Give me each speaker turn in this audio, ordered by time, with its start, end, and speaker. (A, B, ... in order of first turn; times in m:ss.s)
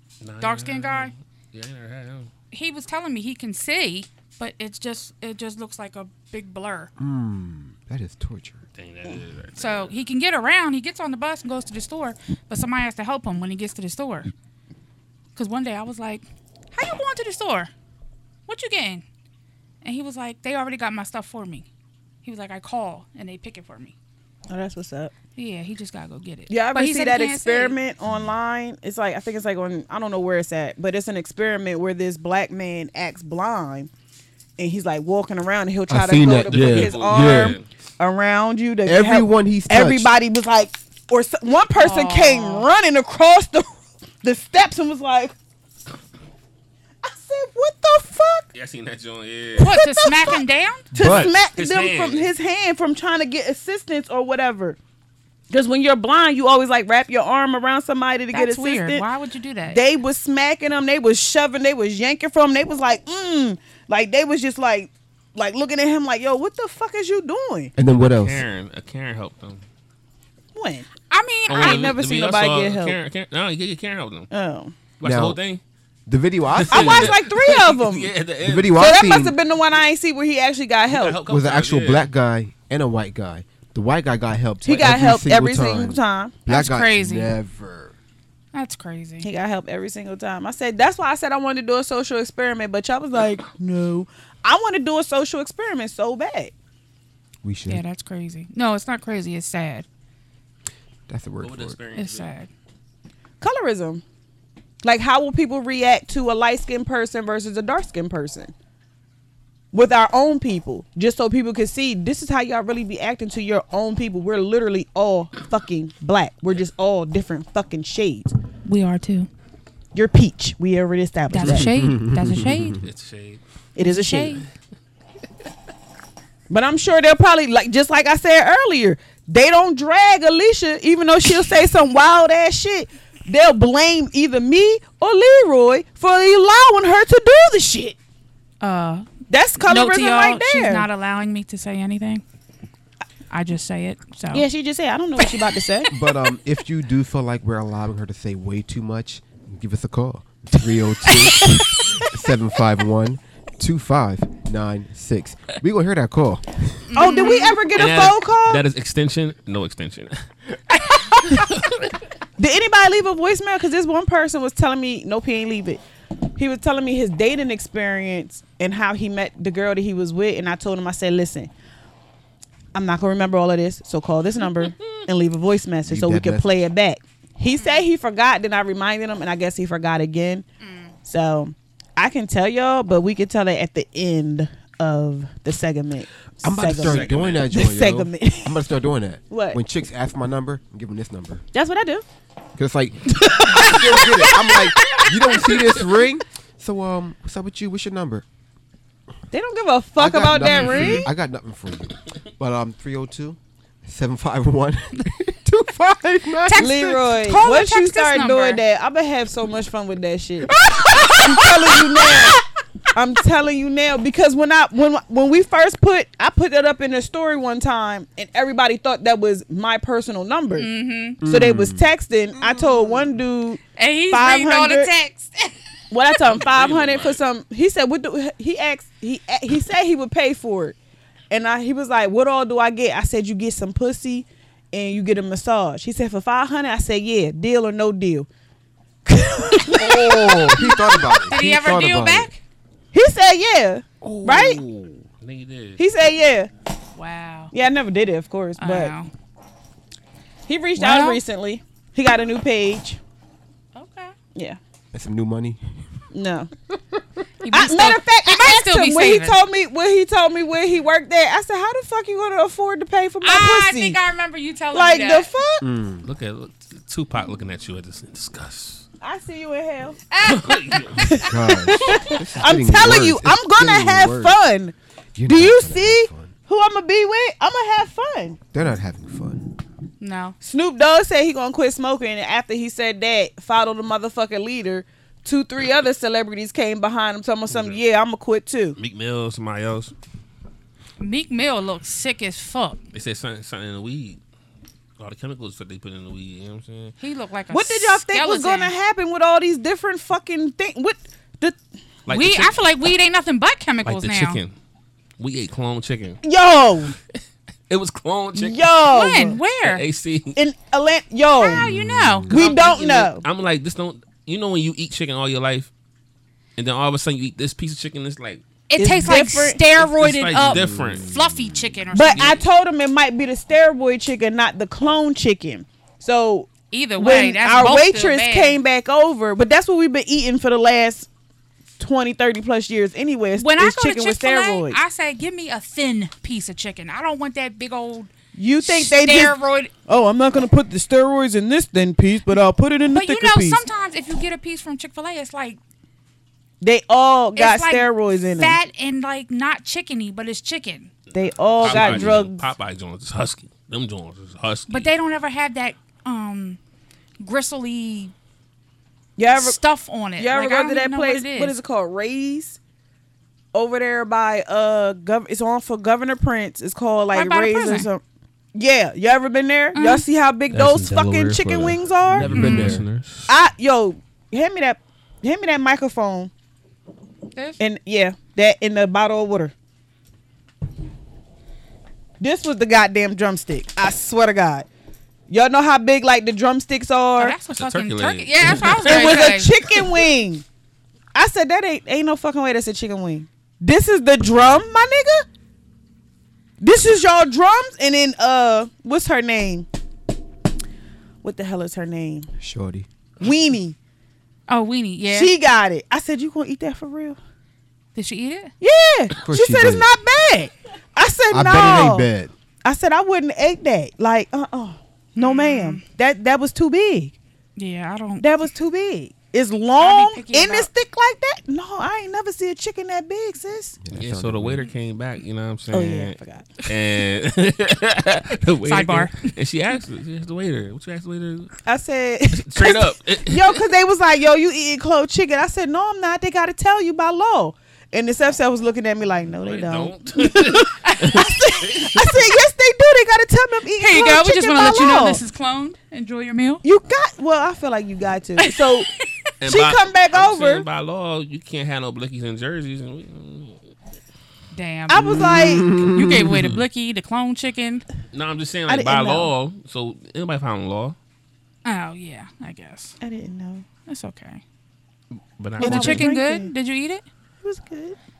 0:00.2-0:02.3 A
0:00.4-0:01.1 B
0:02.5-0:06.9 B
0:07.0-0:08.6 C
0:08.8-0:10.0 A
0:09.6-0:14.3 B
0:15.4-0:17.7 B
0:18.5-0:19.0 B
0:19.8-0:21.7 B
0:22.2-0:23.9 B
0:24.5-0:25.1 D
0:25.4-0:27.8 B
0:26.5-0:33.9 D
0:34.6-0:45.4 D
0:35.9-0:37.6 C
0:36.5-0:37.6 A
0:38.9-0:40.1 C
0:41.8-0:42.7 B
0:47.0-0:48.5 D
0:48.5-0:49.8 A
0:49.6-0:50.9 B
0:49.6-0:50.4 D
0:50.9-0:51.3 C
0:50.9-0:54.8 D
0:51.0-0:52.3 A
0:55.5-0:59.1 D
0:58.3-0:59.8 B
0:59.7-1:07.7 D
1:07.8-1:08.4 C
1:07.8-1:09.6 A
1:10.6-1:10.9 D
1:11.1-1:11.9 B
1:11.5-1:14.3 A
1:11.5-1:13.0 D
1:14.3-1:14.8 D
1:15.0-1:15.6 A
1:15.0-1:15.4 C
1:16.1-1:17.2 C
1:16.5-1:18.8 A
1:16.7-1:18.1 D
1:18.4-1:19.4 C
1:18.8-1:21.2 D
1:20.9-1:22.1 A
1:21.3-1:27.9 C
1:24.6-1:26.5 D
1:26.5-1:27.3 B
1:28.5-1:29.3 B
1:29.2-1:36.5 D
1:37.4-1:37.8 C
1:37.7-1:39.9 B
1:41.1-1:41.8 C
1:41.4-1:42.3 A
1:42.0-1:42.5 B
1:43.4-1:44.0 D
1:44.8-1:48.5 D
1:49.7-1:58.3 D
1:58.6-1:59.3 B
1:59.9-2:01.7 D
2:01.3-2:02.8 B
2:01.4-2:02.9 C
2:02.8-2:03.4 A
2:03.8-2:04.4 D
2:03.8-2:04.4 B
2:06.5-2:18.0 D
2:18.6-2:22.2 B
2:19.3-2:20.9 D
2:23.3-2:24.4 B
2:24.3-2:25.9 D
2:25.9-2:36.9 C
2:31.2-2:31.8 B
2:36.9-2:37.6 B
2:36.9-2:38.6 D
2:37.7-2:40.2 A
2:41.4-2:41.9 A
2:42.4-2:45.8 D
2:46.4-2:51.5 D
2:52.7-3:00.4 D
2:55.9-2:56.6 C
2:57.6-2:57.8 B
3:00.6-3:00.9 B
3:01.1-3:08.6 D
3:06.4-3:11.4 C
3:06.8-3:07.5 A
3:09.3-3:09.6 D
3:11.5-3:12.0 D
3:12.6-3:18.2 C
3:13.1-3:15.8 D
3:19.3-3:21.1 D
3:20.0-3:26.7 C
3:20.5-3:21.1 B
3:26.4-3:28.6 B
3:26.6-3:32.4 D
3:30.6-3:32.1 C
3:32.9-3:40.7 D
3:40.6-3:41.2 B
3:41.2-3:41.9 C
3:41.2-3:44.9 D
3:42.4-3:43.1 B
3:43.8-3:45.5 B
3:45.9-3:50.8 D
3:46.4-3:47.2 A
3:51.3-3:58.3 D
3:59.0-4:00.8 D
3:59.7-4:02.3 C
4:00.6-4:02.4 B
4:02.9-4:04.6 D
4:04.0-4:05.8 A
4:05.8-4:06.5 D
4:07.0-4:07.5 B
4:07.5-4:08.9 D
4:08.6-4:09.1 B
4:10.5-4:13.0 D
4:10.8-4:11.2 B
4:13.8-4:14.2 B
4:14.9-4:15.9 C
4:16.1-4:16.5 D
4:17.4-4:19.4 B
4:17.5-4:24.0 D
4:23.2-4:25.3 B
4:24.7-4:25.6 D
4:25.6-4:26.1 C
4:26.0-4:28.8 A
4:29.0-4:30.0 D
4:30.1-4:31.2 B
4:30.2-4:31.2 A
4:31.0-4:34.4 C
4:31.1-4:34.8 D
4:35.2-4:36.3 C
4:35.3-4:38.4 D
4:38.5-4:39.4 C
4:40.0-4:40.4 B
4:40.4-4:48.8 D
4:47.5-4:47.8 A
4:48.8-4:49.9 A
4:51.0-4:52.8 B
4:52.9-4:54.2 A
4:55.0-4:57.0 A
4:57.0-4:58.7 B
4:57.5-5:01.6 D
5:02.1-5:02.6 A
5:02.1-5:04.4 B
5:03.8-5:04.5 A
5:05.2-5:06.2 A
5:06.2-5:07.0 D
5:07.7-5:08.6 A
5:08.4-5:09.4 D
5:08.9-5:09.8 B
5:09.6-5:10.4 A
5:10.4-5:11.7 D
5:11.4-5:13.1 B
5:11.5-5:12.4 C
5:12.3-5:13.2 D
5:12.4-5:15.7 A
5:16.6-5:18.4 A
5:18.7-5:22.4 B
5:18.8-5:19.6 D
5:19.8-5:21.1 A
5:20.5-5:21.6 C
5:21.9-5:31.1 D
5:26.7-5:28.6 B
5:31.8-5:34.8 D
5:33.4-5:39.7 B
5:38.4-5:43.6 D
5:42.9-5:45.6 B
5:46.6-5:48.6 D
5:47.4-5:50.9 B
5:51.1-5:54.9 A
5:51.1-5:52.4 D
5:51.6-5:52.2 C
5:54.7-5:56.6 B
5:57.2-5:58.1 B
5:59.2-5:59.6 D
5:59.4-6:01.6 B
6:00.2-6:02.6 D
6:03.5-6:08.0 D
6:07.1-6:07.9 B
6:08.6-6:12.4 D
6:09.8-6:10.0 B
6:10.5-6:13.3 A
6:12.1-6:12.8 C
6:12.4-6:12.8 B
6:13.3-6:16.3 D
6:17.3-6:17.6 B
6:17.6-6:19.5 D
6:22.2-6:24.7 D
6:25.3-6:27.4 D
6:27.2-6:29.5 B
6:27.6-6:29.3 A
6:28.8-6:30.4 D
6:31.1-6:35.2 D
6:36.6-6:39.7 D
6:41.2-6:42.3 D
6:42.4-6:42.9 C
6:43.2-6:43.8 D
6:44.5-6:45.3 B
6:45.1-6:47.2 D
6:48.0-6:48.5 B
6:48.6-6:52.1 D
6:49.2-6:49.9 C
6:51.3-6:52.3 C
6:52.6-6:57.2 D
6:55.2-6:55.8 B
6:57.6-6:58.3 B
6:58.2-7:03.8 D
6:59.8-7:00.7 B
7:03.8-7:04.6 C
7:03.9-7:11.6 A
7:05.7-7:06.5 D
7:08.6-7:09.2 B
7:11.7-7:25.2 D
7:12.3-7:13.6 A
7:19.4-7:22.3 A
7:20.8-7:21.3 B
7:23.8-7:26.6 B
7:26.6-7:28.9 D
7:28.4-7:29.1 B
7:29.4-7:33.7 A
7:29.4-7:30.7 D
7:34.5-7:37.8 B
7:34.9-7:35.7 D
7:35.3-7:36.6 C
7:38.1-7:41.0 A
7:38.7-7:39.3 D
7:41.6-7:43.0 B
7:43.0-7:43.7 D
7:43.9-7:44.4 B
7:45.1-7:46.1 A
7:45.6-7:47.0 B
7:45.6-7:46.5 D
7:47.4-7:48.0 D